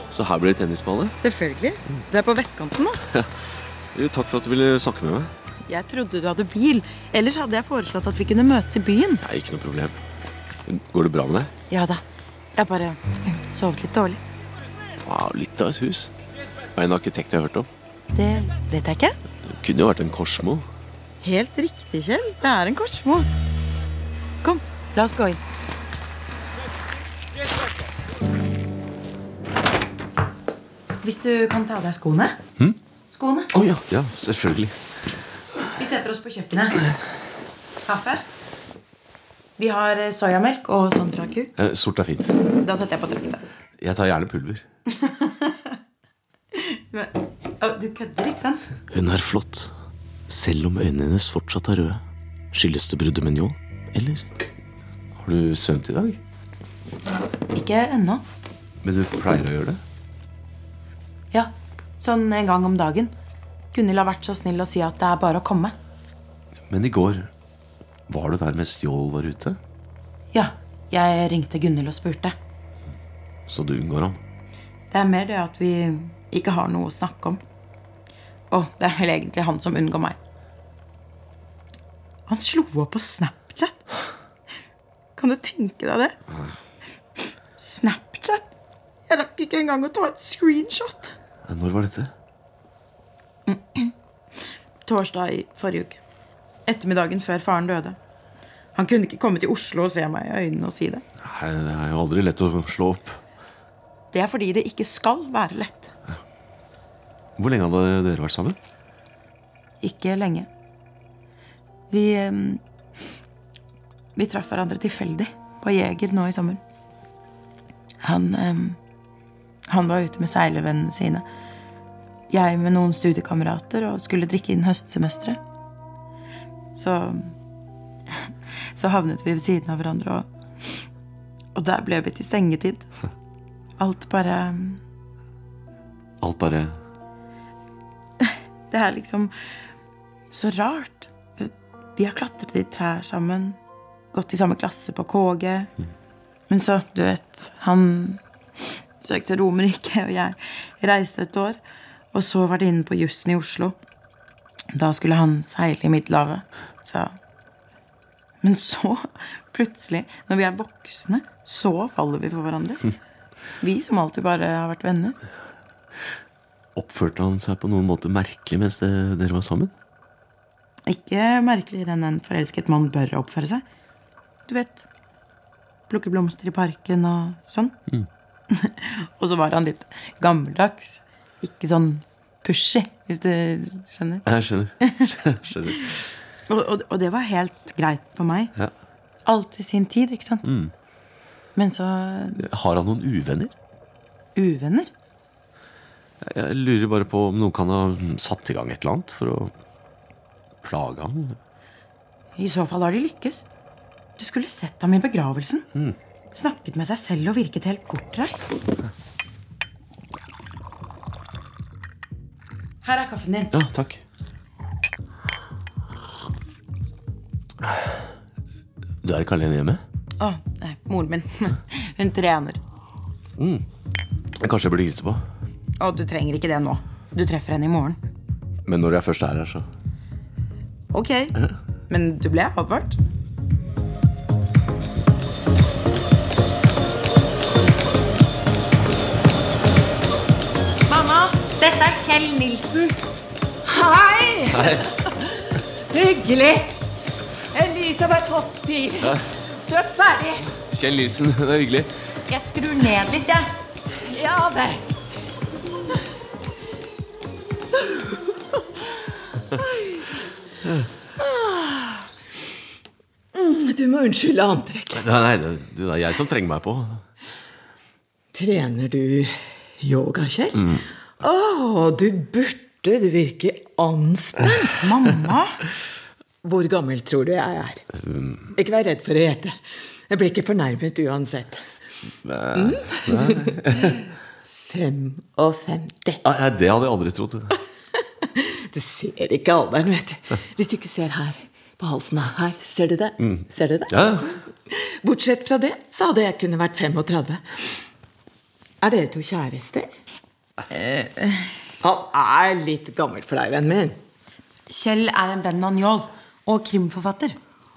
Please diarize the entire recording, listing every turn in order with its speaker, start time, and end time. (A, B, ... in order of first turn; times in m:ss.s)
0:00.1-0:01.2 A
0:01.2-0:03.0 B
0:03.9-0:05.3 A
0:05.7-0:09.2 B
0:09.2-0:10.0 A
0:10.7-0:11.5 A
0:11.7-0:12.0 B
0:12.6-0:14.2 B
0:15.0-0:16.1 A
0:16.8-0:17.7 A
0:18.1-0:19.2 B
0:19.5-0:20.7 A
0:21.2-0:23.3 B
0:24.4-0:25.4 B
0:31.0-0:32.4 B
0:33.1-0:33.5 B
0:33.5-0:34.8 A
0:35.8-0:36.8 B
0:37.9-0:38.2 B
0:39.6-0:41.5 B
0:41.6-0:42.3 A
0:42.6-0:43.4 B
0:43.8-0:44.6 A
0:45.0-0:45.7 B
0:46.6-0:48.6 B
0:48.9-0:49.7 A
0:50.3-0:52.0 A
0:52.5-0:54.2 A
0:55.2-0:56.2 A
0:57.5-0:58.2 B
0:58.8-0:59.8 A
1:01.3-1:03.1 B
1:03.7-1:05.8 B
1:06.7-1:07.3 A
1:08.1-1:09.6 A
1:10.3-1:12.4 B
1:13.5-1:14.2 A
1:14.9-1:17.4 B
1:18.5-1:20.2 B
1:22.3-1:23.8 B
1:25.2-1:26.2 B
1:27.6-1:28.5 B
1:29.1-1:31.1 B
1:31.5-1:32.1 A
1:33.5-1:33.9 B
1:34.9-1:36.0 B
1:36.7-1:38.0 B
1:38.8-1:41.0 B
1:41.2-1:43.2 A
1:44.1-1:45.9 B
1:47.4-1:48.6 A
1:49.8-1:50.5 B
1:51.9-1:52.6 B
1:54.2-1:56.6 B
1:58.0-1:58.8 B
1:59.7-2:01.2 B
2:02.3-2:05.4 B
2:06.7-2:07.3 B
2:08.8-2:10.3 B
2:11.6-2:12.9 B
2:13.8-2:14.8 B
2:16.2-2:16.8 A
2:18.2-2:19.3 B
2:20.3-2:23.6 B
2:24.1-2:25.7 B
2:26.5-2:28.2 B
2:29.0-2:31.6 B
2:32.1-2:33.8 B
2:34.7-2:37.2 B
2:38.4-2:42.9 B
2:43.6-2:45.2 B
2:46.8-2:49.7 A
2:50.9-2:53.6 B
2:54.5-2:54.9 B
2:55.9-2:57.8 B
2:58.5-3:04.2 B
3:04.3-3:06.0 A
3:04.8-3:05.1 B
3:06.5-3:08.5 B
3:09.3-3:10.4 B
3:10.4-3:10.7 A
3:11.6-3:12.4 B
3:12.4-3:13.5 A
3:14.4-3:14.9 B
3:16.2-3:19.5 A
3:20.6-3:21.4 A
3:22.4-3:23.4 B
3:24.2-3:25.7 B
3:26.3-3:28.6 B
3:32.8-3:33.5 B
3:33.5-3:34.0 A
3:39.0-3:39.8 A
3:40.2-3:42.6 B
3:43.4-3:43.6 A
3:44.4-3:45.2 A
3:45.8-3:48.0 B
3:48.7-3:49.7 A
3:50.9-3:51.4 B
3:51.9-3:53.0 B
4:00.9-4:03.0 B
4:03.6-4:06.8 C
4:04.5-4:04.9 A
4:07.5-4:10.5 C
4:10.7-4:11.9 A
4:12.3-4:13.5 B
4:14.1-4:14.9 C
4:17.8-4:18.6 C
4:19.6-4:20.1 C
4:21.2-4:22.1 C
4:23.3-4:25.0 C
4:24.9-4:27.0 A
4:28.3-4:35.1 C
4:34.8-4:35.6 B
4:36.4-4:37.8 C
4:38.0-4:38.5 A
4:38.6-4:39.6 C
4:40.1-4:41.6 C
4:42.2-4:44.0 A
4:42.6-4:44.0 C
4:44.6-4:46.2 C
4:46.2-4:47.6 A
4:48.2-4:57.6 C
4:53.2-4:54.3 A
4:58.8-4:59.9 C
5:00.7-5:01.6 B
5:01.8-5:04.0 C
5:04.7-5:07.4 B